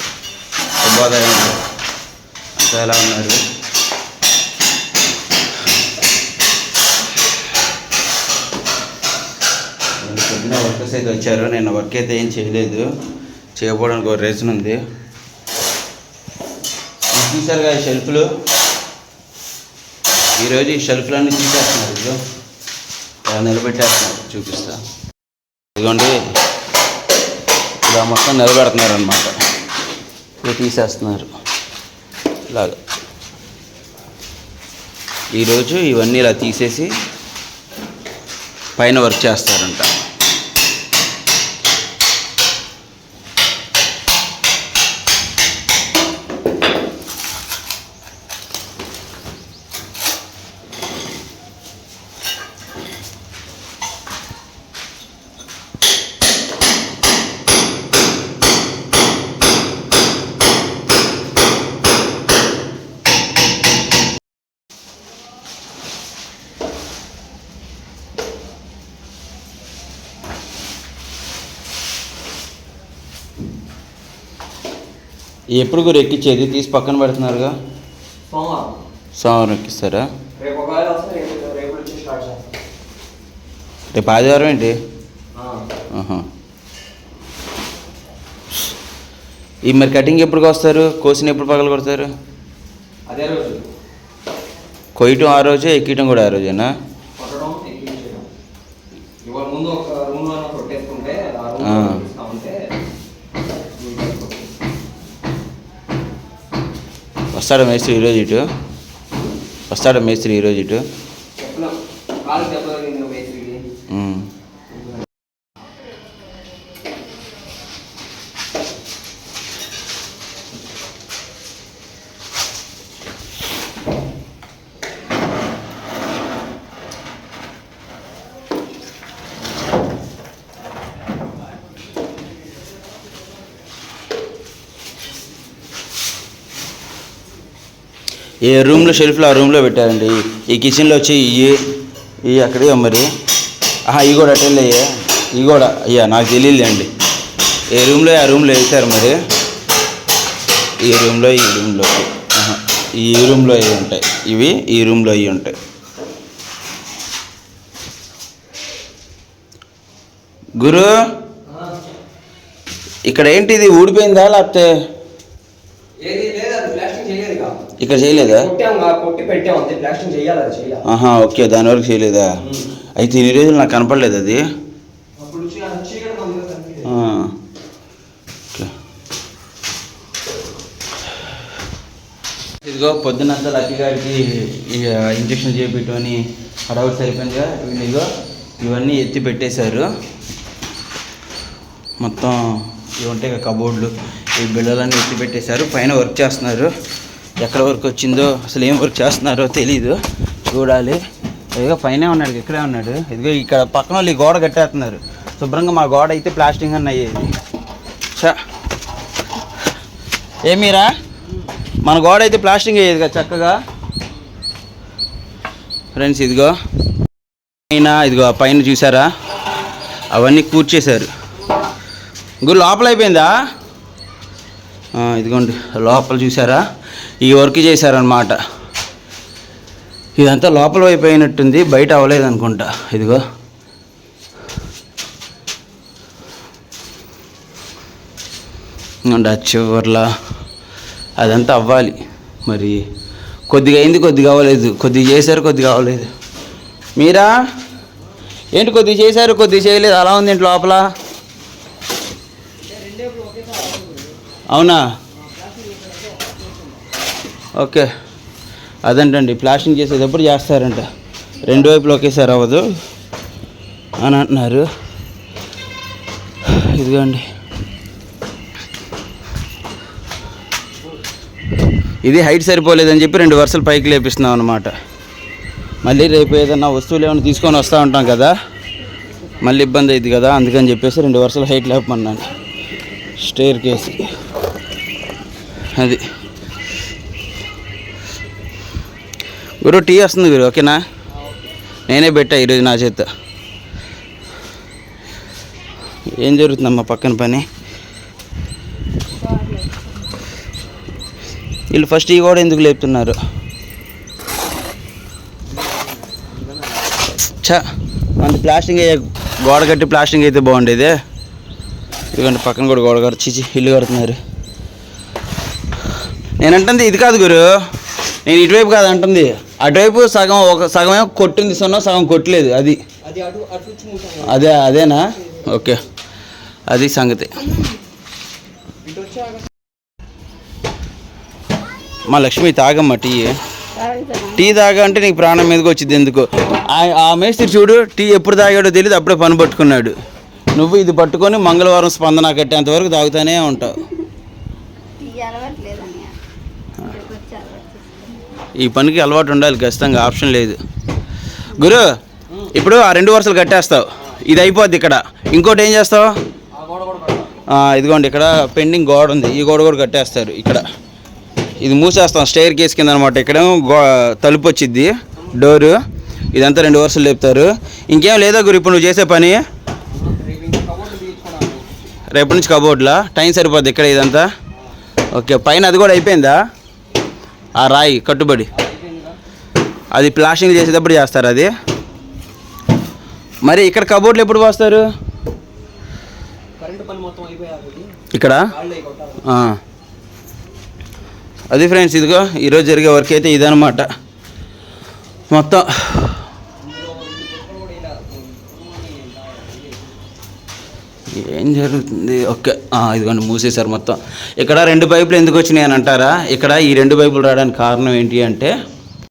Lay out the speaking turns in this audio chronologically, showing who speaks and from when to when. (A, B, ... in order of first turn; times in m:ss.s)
0:00.8-0:01.6 A
0:02.6-0:03.4 A
0:10.0-0:12.9 A
0:13.6-0:14.8 A
0:17.1-0:18.3 A
0:20.4-0:22.2 A
0:23.2-0:24.8 A
0:25.8-0:26.3 A
0:27.8-0:29.4 A
0:30.4-0:31.3 A
0:32.5-0:32.8 A
0:35.3-0:36.9 A
0:38.8-0:39.9 A
1:15.5-1:17.6 A
1:18.3-1:18.8 B
1:19.2-1:20.1 A
1:20.4-1:22.6 B
1:23.9-1:24.8 A
1:25.3-1:25.7 B
1:25.9-1:26.2 A
1:29.7-1:32.1 A
1:33.1-1:33.7 B
1:35.0-1:36.7 A
1:37.2-1:38.3 B
1:39.2-1:42.7 B
1:41.6-1:42.0 A
1:43.6-1:44.5 B
1:47.3-1:48.4 A
1:49.7-1:50.8 A
1:51.4-1:53.6 B
1:53.9-1:54.3 A
2:18.4-2:21.6 A
2:22.2-2:23.1 A
2:23.9-2:26.9 A
2:27.7-2:29.2 A
2:30.8-2:35.5 A
2:40.6-2:40.9 A
2:41.5-2:41.8 B
2:43.1-2:44.7 A
2:46.0-2:47.7 B
2:47.8-2:48.5 A
2:48.2-2:50.8 B
2:50.8-2:52.3 A
2:52.4-2:52.7 B
2:53.0-2:54.4 A
2:55.2-2:56.9 B
2:56.8-2:57.3 A
3:02.6-3:08.1 A
3:08.6-3:09.9 A
3:12.0-3:16.7 A
3:17.4-3:21.0 A
3:21.6-3:27.3 A
3:30.5-3:30.9 A
3:31.8-3:33.6 A
3:35.9-3:36.6 A
3:37.7-3:39.1 A
3:40.1-3:41.1 A
3:42.4-3:43.3 A
3:45.0-3:46.6 A
3:47.2-3:48.4 A
3:50.2-3:53.2 A
3:59.0-4:00.1 A
4:01.2-4:02.8 A
4:03.5-4:06.1 A
4:07.0-4:07.3 A
4:08.5-4:10.8 A
4:12.6-4:14.2 B
4:14.5-4:14.8 A
4:15.2-4:16.6 B
4:17.6-4:17.9 A
4:18.9-4:20.9 A
4:21.4-4:22.6 A
4:24.0-4:24.7 A
4:26.4-4:27.2 A
4:32.0-4:34.7 A
4:35.8-4:38.3 A
4:39.4-4:42.3 A
4:43.2-4:44.1 A
4:45.8-4:46.0 A
4:49.6-4:50.8 A
4:51.9-4:53.1 A
4:56.2-4:57.4 A
4:59.2-5:00.0 C
5:01.7-5:03.2 A
5:07.3-5:07.6 A
5:08.2-5:10.9 A
5:12.1-5:14.2 A
5:16.4-5:17.5 A
5:18.2-5:22.8 A
5:23.0-5:24.5 B
5:24.2-5:25.8 A
5:26.7-5:27.6 A
5:28.8-5:29.4 B
5:32.1-5:33.4 A
5:33.8-5:34.3 C
5:34.3-5:39.9 A
5:40.6-5:43.9 A
5:45.0-5:46.2 C
5:46.8-5:48.2 C
5:48.6-5:50.6 A
5:51.5-5:51.9 A
5:52.4-5:56.1 A
5:56.5-5:57.4 B
5:57.5-6:00.6 A
6:01.6-6:05.8 A
6:06.3-6:09.4 A
6:09.9-6:11.7 B
6:12.1-6:14.3 A
6:15.1-6:16.4 A
6:17.6-6:18.5 A
6:18.5-6:19.2 B
6:19.9-6:21.5 A
6:23.4-6:24.8 A
6:26.6-6:29.3 B
6:28.1-6:28.5 A
6:29.2-6:29.6 A
6:31.5-6:33.9 A
6:35.3-6:36.2 A
6:36.6-6:40.0 B
6:41.1-6:48.5 A